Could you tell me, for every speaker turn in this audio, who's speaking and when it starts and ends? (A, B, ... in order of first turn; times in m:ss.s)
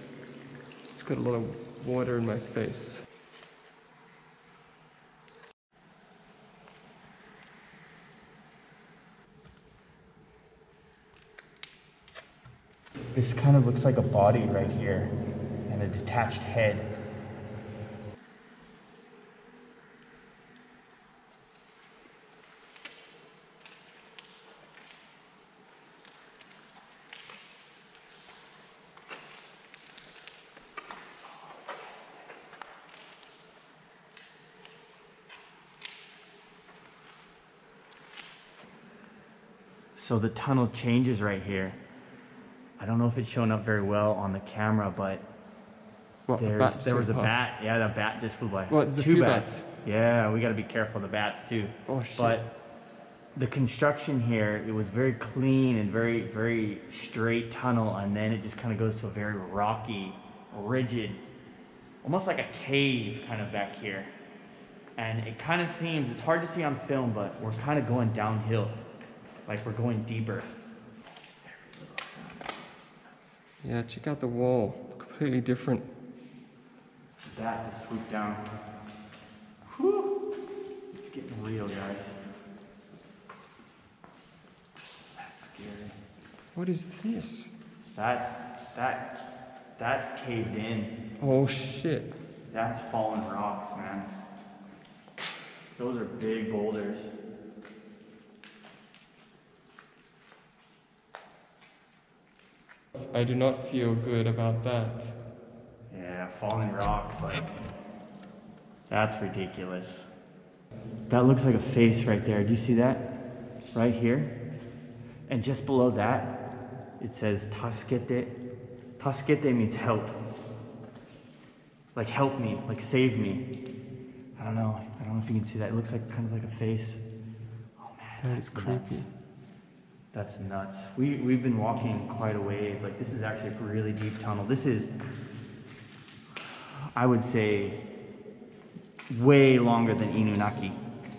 0:00.9-0:03.0 A
0:13.1-0:15.1 B
0:15.7-0:16.9 B
0:39.9-0:41.8 B
0:42.8-0:45.3 B
0:46.3-0:47.4 A
0:46.4-0:52.5 B
0:48.7-0:49.6 A
0:51.9-0:52.4 A
0:53.3-1:01.2 B
1:02.0-1:04.1 B
1:05.0-1:08.8 B
1:09.4-1:10.5 B
1:11.4-1:13.4 B
1:13.6-1:15.9 A
1:17.2-1:18.5 B
1:19.6-1:20.1 B
1:20.9-1:22.2 B
1:25.1-1:26.0 B
1:26.5-1:27.5 A
1:27.9-1:29.2 B
1:29.8-1:30.9 B
1:31.2-1:32.1 A
1:32.5-1:34.1 B
1:35.8-1:37.1 B
1:43.0-1:45.1 A
1:45.9-1:47.6 B
1:48.9-1:50.1 B
1:51.1-1:53.2 B
1:53.7-1:54.4 B
1:55.3-1:56.4 B
1:57.0-1:58.4 B
1:59.0-2:00.2 B
2:01.9-2:03.5 B
2:04.4-2:07.0 B
2:07.8-2:09.1 B
2:08.2-2:09.1 A
2:10.1-2:14.9 B
2:16.9-2:17.8 B
2:19.1-2:20.8 B